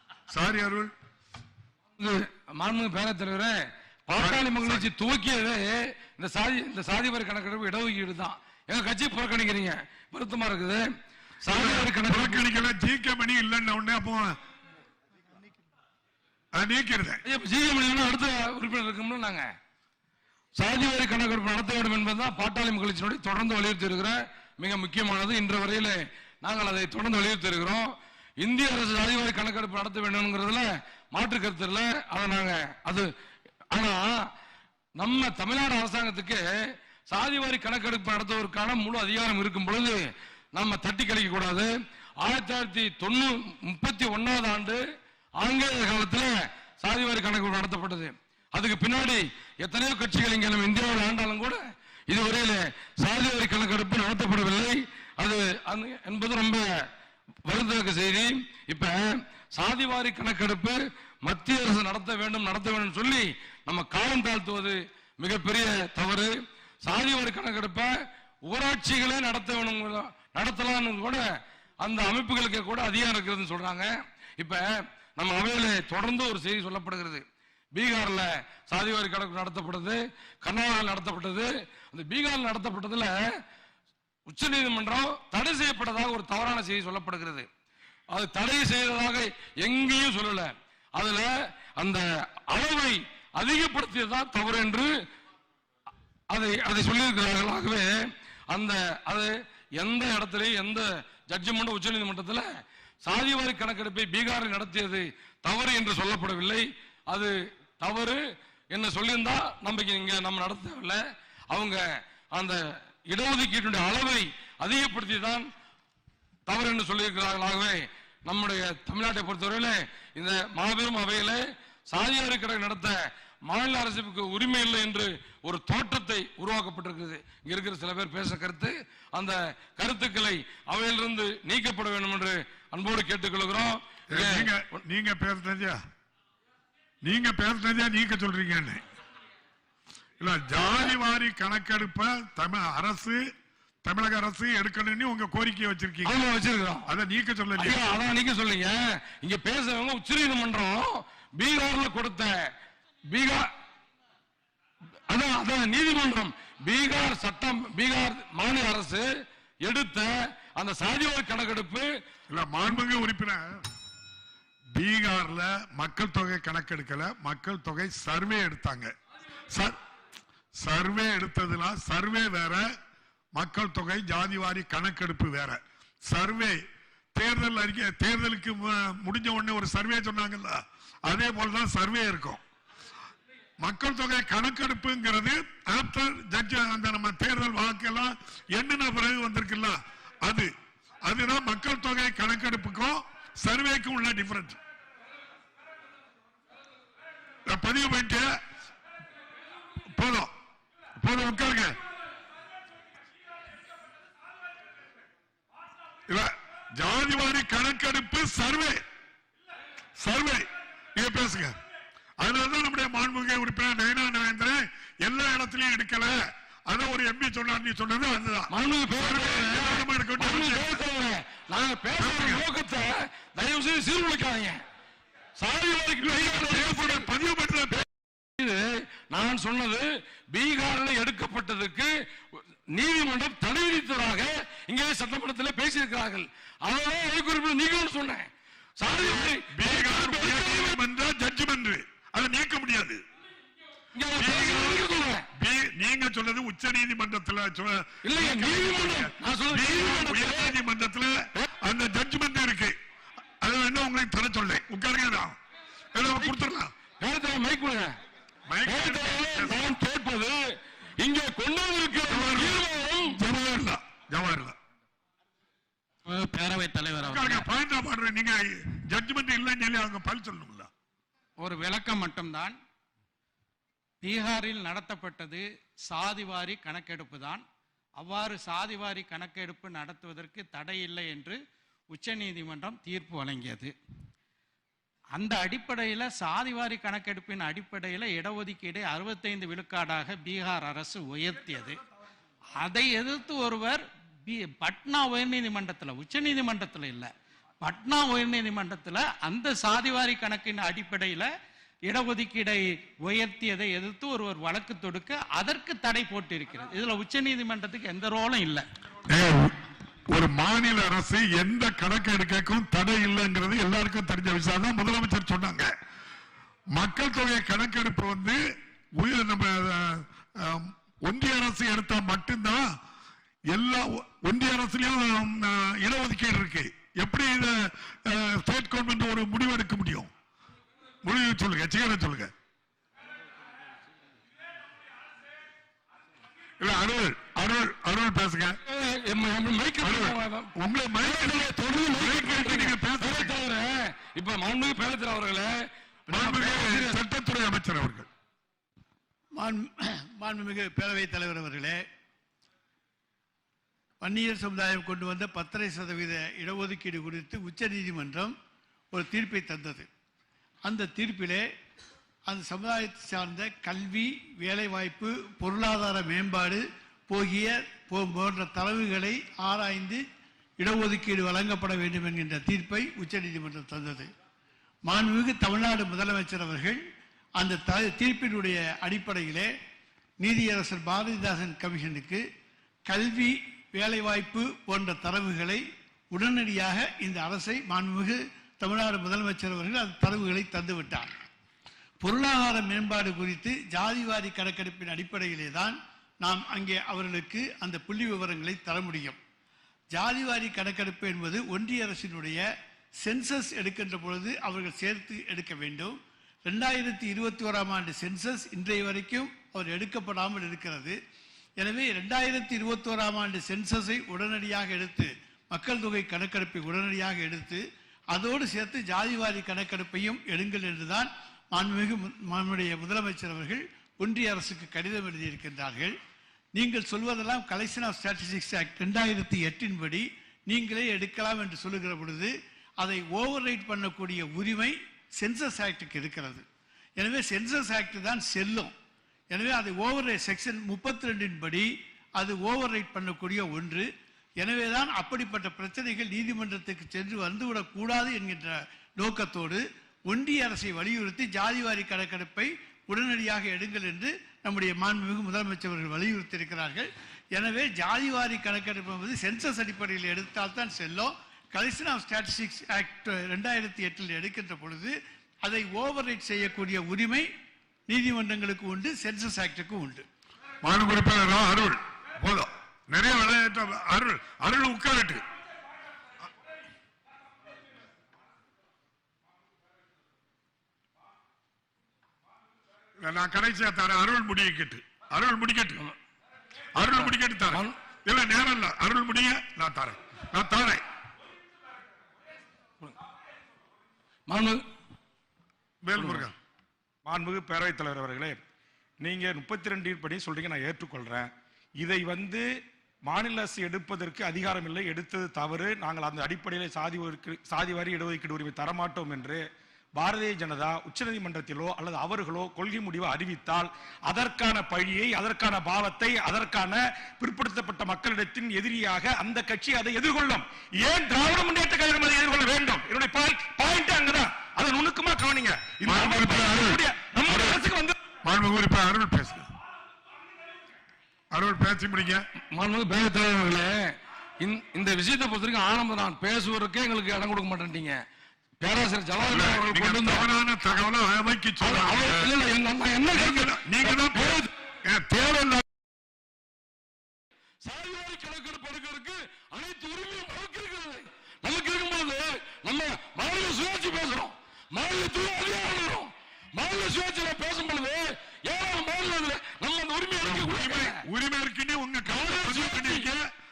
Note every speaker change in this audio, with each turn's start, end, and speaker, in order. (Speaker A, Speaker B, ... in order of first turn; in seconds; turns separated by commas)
Speaker A: 0.3-0.9, Speaker B: 2.0-3.5, Speaker B: 4.1-10.8, Speaker A: 4.1-4.9, Speaker B: 11.4-12.4, Speaker A: 11.5-14.3, Speaker A: 16.5-17.2, Speaker B: 17.3-19.5, Speaker B: 20.6-27.9, Speaker B: 28.4-33.0, Speaker B: 33.7-34.2, Speaker B: 35.0-36.4, Speaker B: 37.1-40.0, Speaker B: 40.5-41.7, Speaker B: 42.2-44.8, Speaker B: 45.4-56.7, Speaker B: 57.5-59.0, Speaker B: 59.5-66.3, Speaker B: 66.8-67.9, Speaker B: 68.5-71.2, Speaker B: 71.8-73.9, Speaker B: 75.2-77.2, Speaker B: 77.7-83.2, Speaker B: 84.3-87.5, Speaker B: 88.1-94.9, Speaker B: 96.3-97.9, Speaker B: 98.5-102.5, Speaker B: 103.0-108.2, Speaker B: 108.7-111.0, Speaker B: 111.5-111.8, Speaker B: 113.1-115.4, Speaker B: 116.5-121.4, Speaker B: 121.9-122.9, Speaker B: 123.5-134.5, Speaker A: 134.1-135.8, Speaker A: 137.0-138.8, Speaker A: 140.2-143.2, Speaker A: 143.8-146.2, Speaker B: 146.1-146.9, Speaker A: 146.9-147.9, Speaker B: 147.6-152.3, Speaker B: 153.1-153.4, Speaker B: 155.1-159.0, Speaker B: 159.6-161.9, Speaker A: 162.3-163.6, Speaker A: 164.8-168.9, Speaker A: 169.5-169.8, Speaker A: 170.6-172.7, Speaker A: 173.3-176.6, Speaker A: 177.2-182.4, Speaker A: 183.6-190.5, Speaker A: 191.0-194.6, Speaker A: 197.5-198.3, Speaker A: 199.9-200.3, Speaker A: 201.0-201.8, Speaker A: 206.1-208.8, Speaker A: 210.0-211.6, Speaker A: 212.2-220.8, Speaker B: 218.5-224.6, Speaker A: 222.0-222.4, Speaker B: 225.4-227.1, Speaker A: 226.0-227.8, Speaker B: 228.4-240.8, Speaker A: 239.0-243.0, Speaker B: 243.9-245.3, Speaker A: 244.2-252.8, Speaker B: 248.1-250.6, Speaker A: 253.4-255.4, Speaker A: 255.9-256.7, Speaker B: 257.0-257.9, Speaker A: 258.5-259.6, Speaker B: 258.6-260.4, Speaker B: 261.0-263.2, Speaker A: 262.1-264.6, Speaker C: 266.1-267.5, Speaker A: 267.0-270.7, Speaker C: 271.4-272.5, Speaker C: 274.0-277.4, Speaker C: 278.0-281.4, Speaker C: 281.9-283.7, Speaker C: 285.1-291.8, Speaker C: 292.6-297.1, Speaker C: 297.6-301.3, Speaker C: 301.9-308.6, Speaker A: 309.1-309.6, Speaker A: 310.1-315.7, Speaker A: 316.7-318.4, Speaker A: 319.0-322.7, Speaker A: 323.5-330.1, Speaker A: 331.0-332.3, Speaker A: 336.6-338.6, Speaker B: 338.7-340.5, Speaker A: 339.8-343.4, Speaker B: 341.0-345.5, Speaker A: 346.1-348.1, Speaker B: 346.1-347.0, Speaker D: 349.4-351.8, Speaker D: 354.0-358.3, Speaker D: 358.9-359.9, Speaker D: 360.6-361.4, Speaker D: 362.3-370.0, Speaker D: 370.6-374.1, Speaker D: 374.9-376.8, Speaker D: 377.4-379.5, Speaker D: 380.2-382.2, Speaker D: 382.9-391.1, Speaker D: 392.0-399.2, Speaker D: 399.9-402.4, Speaker D: 403.0-411.0, Speaker D: 411.6-417.6, Speaker D: 418.1-425.9, Speaker D: 426.6-436.4, Speaker D: 437.0-438.7, Speaker D: 439.3-443.9, Speaker D: 444.4-467.3, Speaker D: 467.9-470.0, Speaker A: 470.6-475.2, Speaker A: 483.0-485.8, Speaker A: 486.8-490.8, Speaker B: 487.0-487.8, Speaker B: 494.3-494.6, Speaker A: 495.8-496.4, Speaker E: 497.1-498.4, Speaker E: 499.0-502.5, Speaker E: 503.0-528.0, Speaker A: 525.9-527.6, Speaker A: 528.2-529.5, Speaker A: 531.3-532.2, Speaker B: 532.5-538.0, Speaker B: 538.6-540.3, Speaker A: 539.3-542.3, Speaker B: 541.6-544.5, Speaker A: 543.1-545.6, Speaker B: 547.6-561.0, Speaker A: 560.2-563.3, Speaker B: 562.1-563.1